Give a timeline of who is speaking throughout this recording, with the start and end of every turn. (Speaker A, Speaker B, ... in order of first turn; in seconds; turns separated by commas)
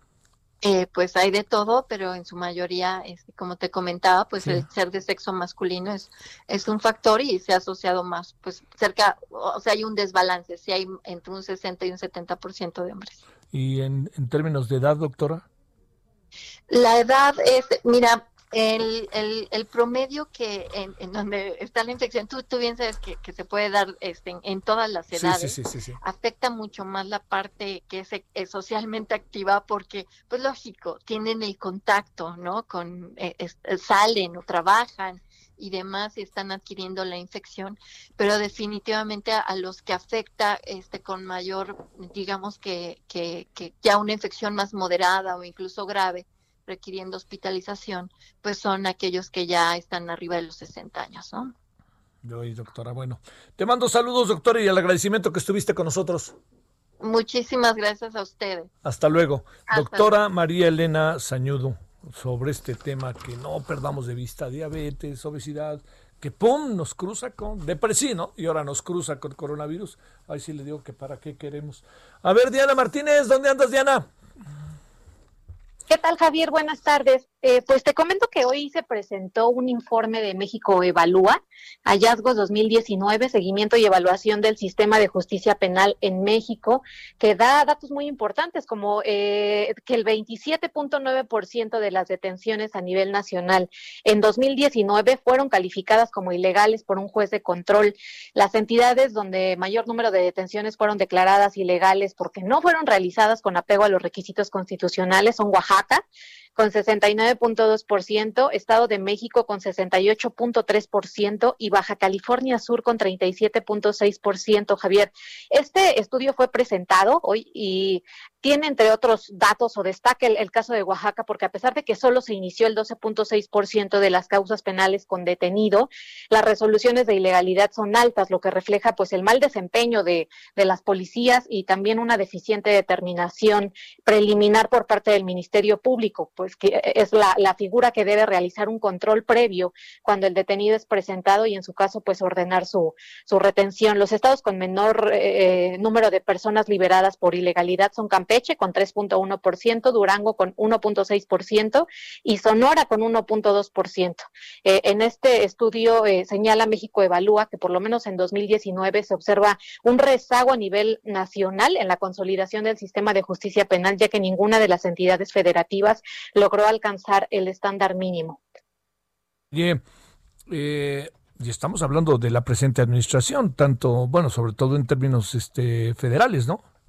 Speaker A: 0.6-13.2, Speaker B: 13.5-15.4, Speaker A: 16.7-51.5, Speaker B: 25.1-26.0, Speaker B: 52.2-56.4, Speaker A: 57.0-58.7, Speaker B: 58.8-74.1, Speaker A: 59.7-60.1, Speaker C: 75.9-106.0, Speaker C: 106.5-168.4, Speaker B: 169.5-169.8, Speaker B: 170.5-176.6